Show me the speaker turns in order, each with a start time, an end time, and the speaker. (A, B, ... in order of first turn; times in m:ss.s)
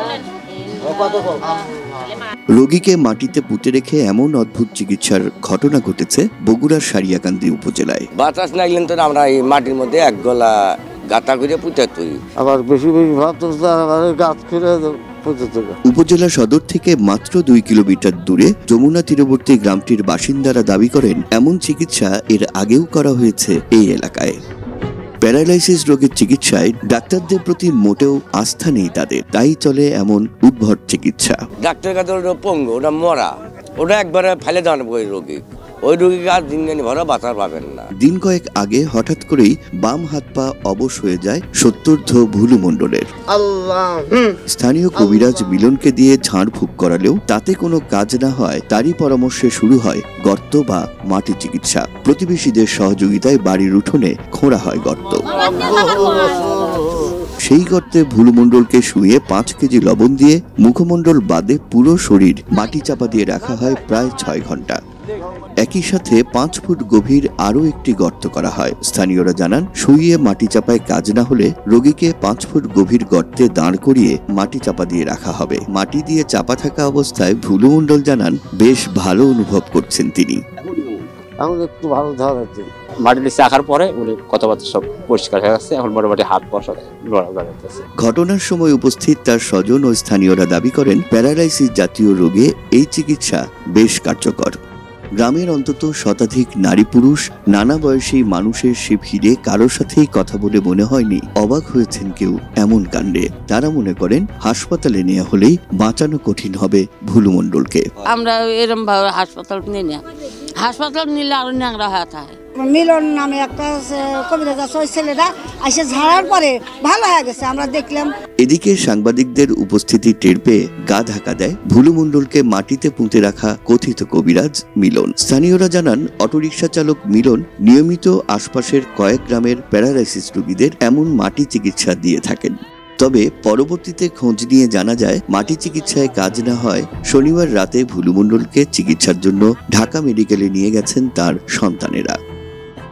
0:02.6-0:08.1 A
0:08.2-0:10.5 B
0:11.1-0:12.2 B
0:12.4-0:15.8 C
0:15.9-0:24.4 A
0:25.2-0:31.4 A
0:31.6-0:37.9 B
0:38.0-0:43.1 A
0:44.5-0:55.3 A
0:55.6-0:57.0 C
0:57.5-1:04.8 A
1:05.6-1:20.4 A
1:21.4-1:22.7 C
1:23.0-1:27.8 D
1:28.0-1:34.6 A
1:35.2-1:47.8 A
1:48.1-1:50.0 E
1:50.6-1:52.4 E
1:52.6-1:58.1 F
1:58.4-2:22.2 A